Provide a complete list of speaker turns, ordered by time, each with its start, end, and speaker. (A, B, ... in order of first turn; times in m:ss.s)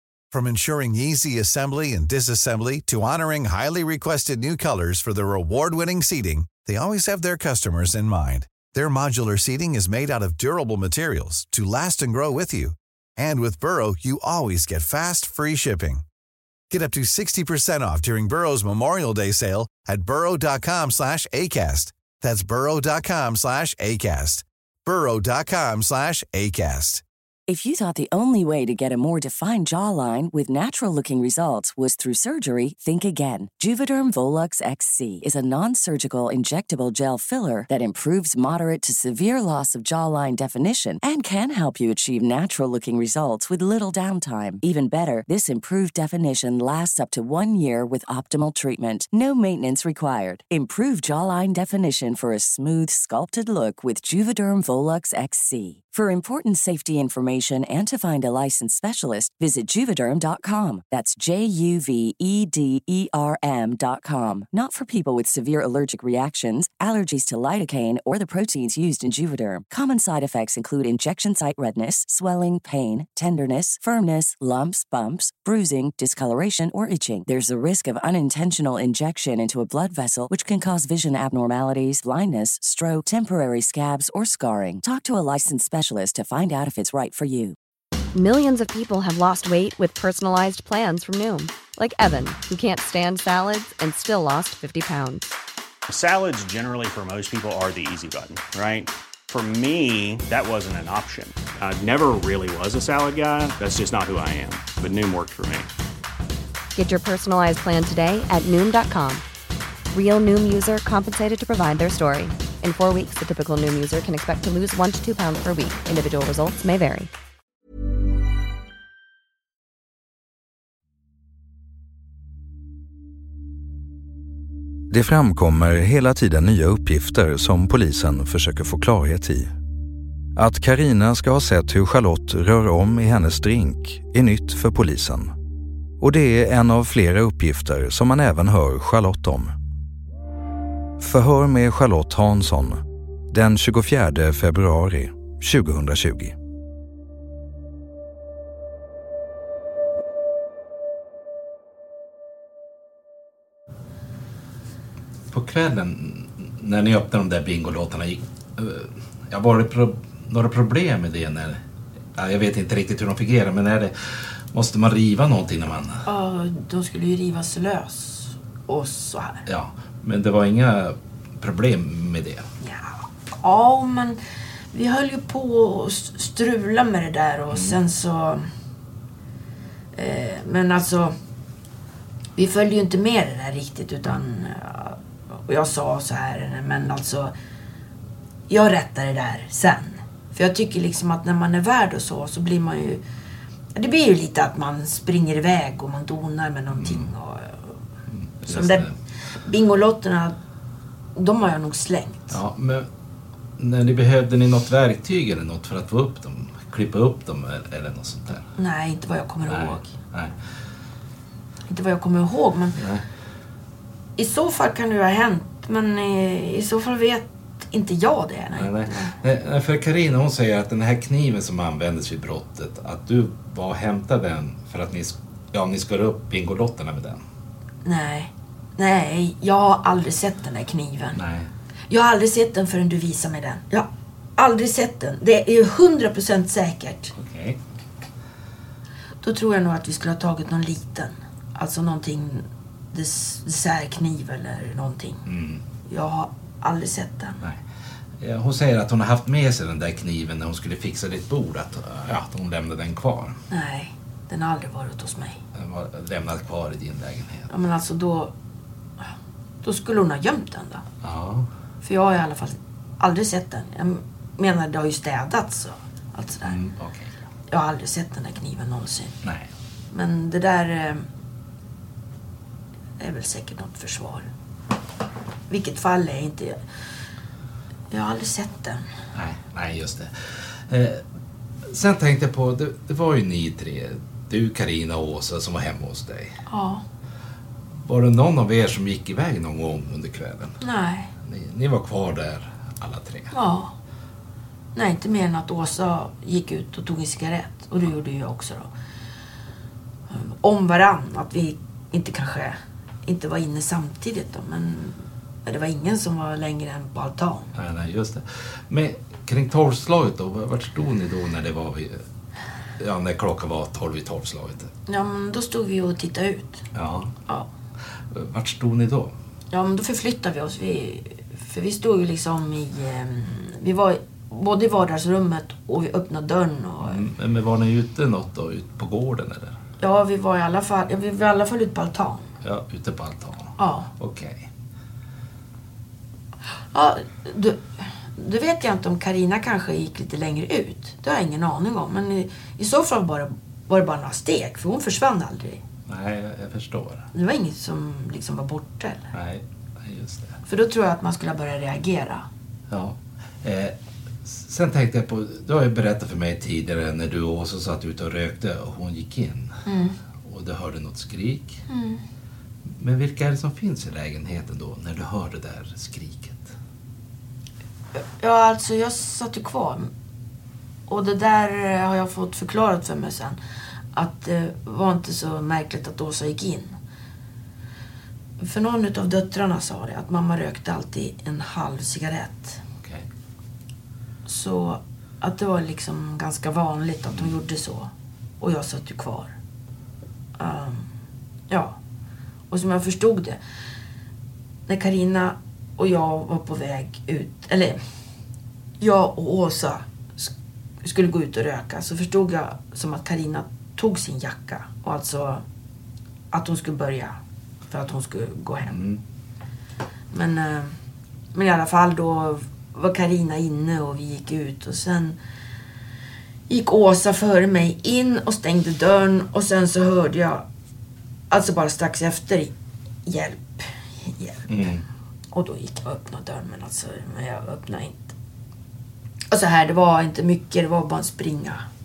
0:00.3-0:16.0 A
0:16.7-0:27.0 A
0:27.5-1:27.6 B
1:28.1-1:35.3 C
1:35.9-1:45.7 D
1:46.7-1:49.2 C
1:49.9-1:57.1 C
2:04.9-2:09.5 E
2:10.4-2:15.3 E
2:16.0-2:19.5 E
2:21.0-2:26.3 E
2:35.3-2:41.6 F
2:42.2-2:46.0 F
2:46.0-2:49.4 G
2:49.4-2:52.4 F
2:52.6-2:54.2 G
2:54.7-2:58.5 G
2:57.5-2:57.8 F
2:59.9-3:01.1 G
3:02.4-3:07.3 G
3:08.5-3:13.0 G
3:13.8-3:17.7 G
3:16.7-3:17.1 F
3:18.1-3:18.9 F
3:18.4-3:18.9 G
3:19.4-3:20.4 G
3:21.1-3:22.4 G
3:22.3-3:22.9 F
3:23.6-3:28.4 F
3:28.6-3:29.9 G
3:29.5-3:30.3 F
3:31.7-3:32.8 G
3:32.8-3:33.0 F
3:34.2-3:39.1 G
3:38.6-3:47.2 F
3:47.8-3:51.2 G
3:51.1-3:51.5 F
3:51.9-3:57.1 G
3:57.1-3:57.6 F
3:59.2-4:05.2 G
4:05.2-4:05.6 F
4:05.9-4:07.4 G
4:08.2-4:13.4 F
4:13.5-4:15.4 G
4:15.5-4:17.5 F
4:17.5-4:18.3 G
4:19.6-4:20.8 G
4:21.0-4:21.5 F
4:21.8-4:26.6 G
4:26.4-4:27.1 F
4:27.5-4:29.2 G
4:29.2-4:29.5 F
4:29.9-4:31.0 G
4:33.0-4:34.3 G
4:35.5-4:36.6 G
4:37.9-4:38.8 G
4:39.1-4:41.0 F
4:41.6-4:46.4 F
4:46.5-4:46.8 G
4:47.8-4:50.6 F
4:50.6-4:51.1 G
4:51.2-4:53.3 F
4:53.3-4:53.7 G
4:54.7-4:58.7 G
5:00.1-5:07.5 G
5:07.5-5:12.0 F
5:12.8-5:14.7 F
5:14.9-5:16.6 G
5:16.7-5:17.1 F
5:18.1-5:19.1 F
5:19.5-5:27.0 G
5:26.8-5:29.6 F
5:29.8-5:32.3 G
5:32.4-5:34.5 F
5:33.6-5:33.9 G
5:36.7-5:45.6 G
5:45.9-5:47.1 F
5:47.1-5:49.1 G
5:49.1-5:50.4 F
5:50.5-5:52.2 G
5:52.7-5:59.5 F
5:59.7-6:00.0 G
6:00.2-6:01.6 F
6:01.7-6:02.0 G
6:02.8-6:06.5 F
6:08.0-6:09.9 G
6:10.9-6:13.4 G
6:13.9-6:16.8 G
6:18.4-6:22.6 G
6:24.2-6:29.3 G
6:27.1-6:27.4 F
6:30.4-6:30.9 G
6:31.5-6:31.8 G
6:32.5-6:33.4 G
6:34.7-6:37.8 G
6:38.8-6:40.3 G
6:40.8-6:45.4 G
6:46.3-6:48.8 G
6:48.7-6:49.0 F
6:50.1-6:50.8 G
6:51.3-6:55.2 G
6:56.5-7:00.4 G
7:01.3-7:02.5 G
7:03.0-7:04.4 G
7:04.5-7:04.8 F
7:05.3-7:08.1 G
7:09.3-7:11.6 G